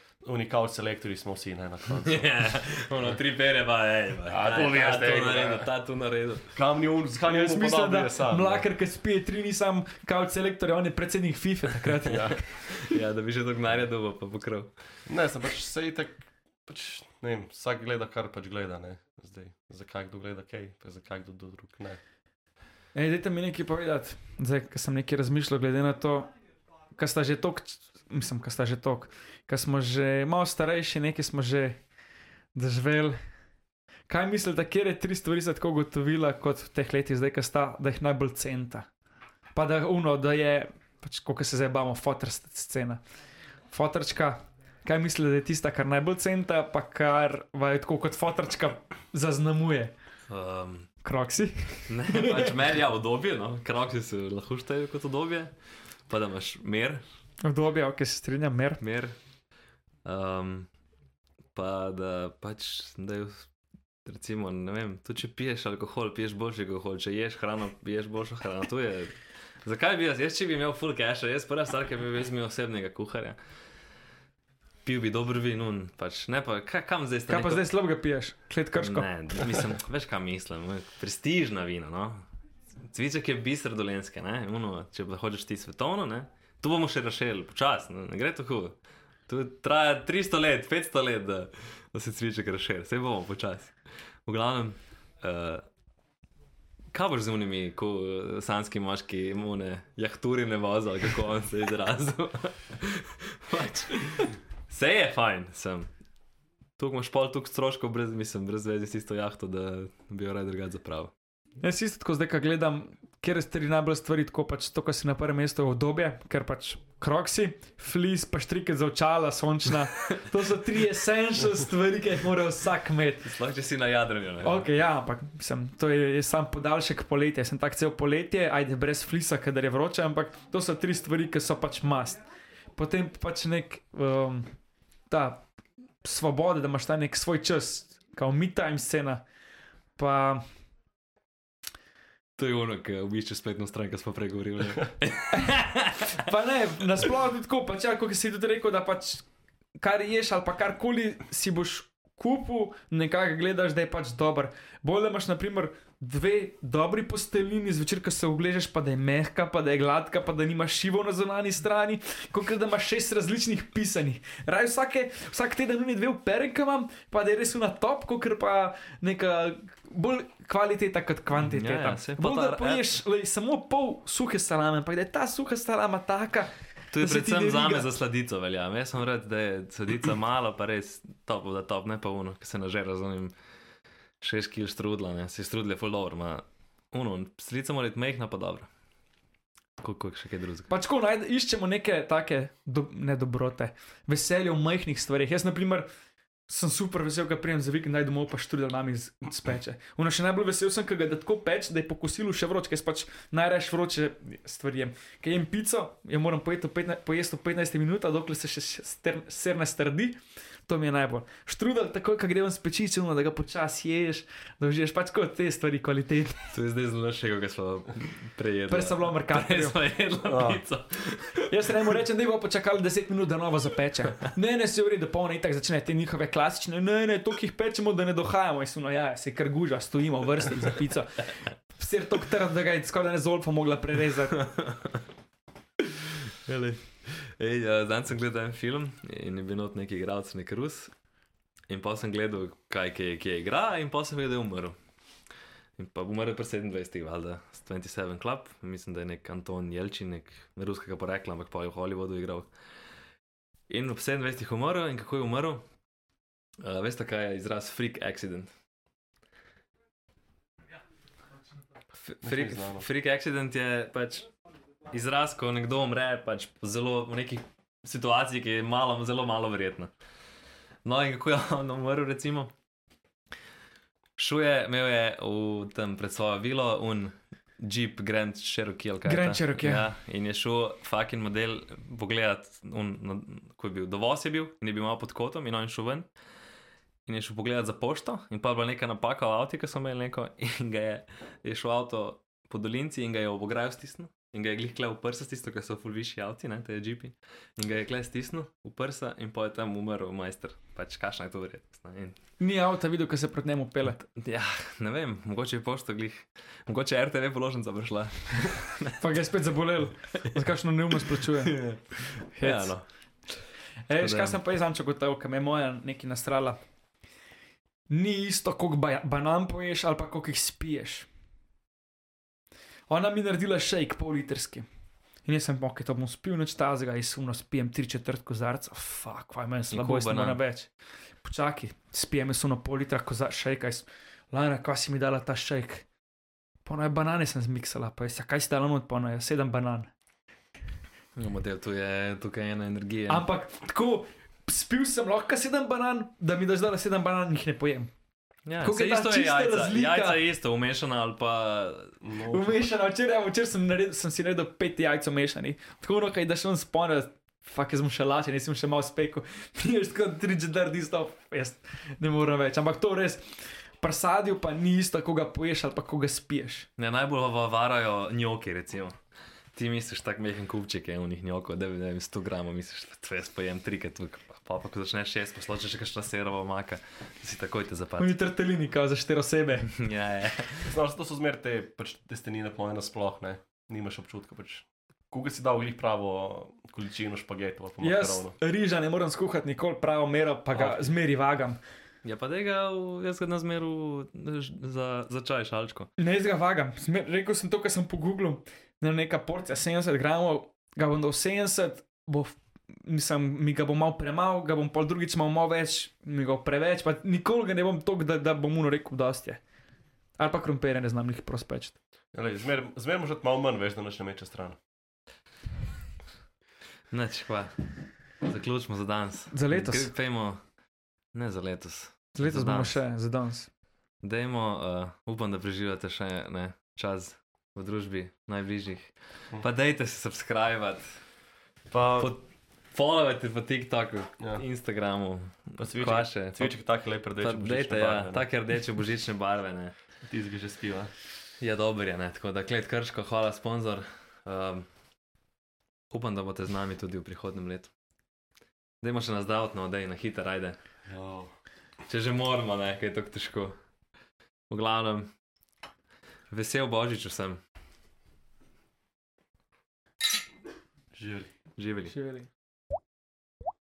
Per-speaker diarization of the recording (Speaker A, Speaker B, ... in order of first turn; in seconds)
Speaker A: 0.2-2.4, 4.3-5.7, 6.5-8.6, 12.1-12.4, 15.1-22.0, 220.2-220.6, 262.2-262.8, 352.0-352.6, 380.6-388.3, 390.6-390.8, 412.1-414.6, 431.7-432.1, 435.6-438.2, 440.0-440.9, 450.9-451.3, 460.9-461.3
Speaker B: 2.0-6.5, 12.4-14.7, 50.3-50.9, 51.9-55.5, 56.1-57.0, 58.8-59.1, 60.0-60.7, 61.5-63.5, 64.0-69.1, 69.6-73.4, 74.8-77.7, 78.8-82.2, 82.9-88.8, 89.3-93.7, 94.3-95.6, 96.9-105.9, 106.8-111.1, 123.2-124.7, 142.4-146.1, 171.4-172.9, 176.9-183.3, 184.2-188.7, 189.8-190.7, 216.5-221.5, 234.4-235.0, 235.8-240.9, 241.7-244.8, 245.8-252.5, 253.7-255.6, 256.6-258.5, 262.0-264.3, 264.9-269.9, 270.8-272.5, 274.2-286.1, 287.1-302.2, 304.0-309.0, 311.2-312.8, 314.0-314.4, 329.7-330.4, 341.1-343.2, 348.5-351.9, 366.8-368.9, 369.5-378.1, 379.7-380.7, 392.0-395.9, 416.9-417.7, 418.2-420.4, 421.1-422.8, 424.0-431.0, 432.0-436.5, 437.2-439.7, 441.4-444.7, 445.9-447.7, 448.8-450.6, 451.9-453.6, 454.5-455.1, 456.3-457.4, 461.6-461.9
Speaker C: 7.3-12.4, 22.9-26.3, 26.9-31.8, 32.5-33.2, 34.1-38.9, 39.5-43.0, 43.7-49.9, 51.0-52.5, 57.4-58.8, 77.3-79.6, 111.6-123.2, 124.4-132.2, 132.7-134.5, 135.1-135.4, 136.0-139.2, 140.0-140.4, 145.3-149.2, 149.8-177.9, 190.7-195.9, 196.5-216.5, 218.7-219.8, 221.5-234.4, 279.0-279.9, 302.4-304.0, 309.0-311.6, 312.4-312.7, 313.9-316.6, 317.9-321.1, 322.9-324.6, 325.2-330.7, 331.2-335.8, 336.6-339.9, 343.1-347.9, 348.6-350.2, 352.3-366.7, 378.0-379.7, 387.8-391.6, 396.0-409.4, 410.2-411.8, 419.3-419.9, 422.1-423.5, 461.9-462.3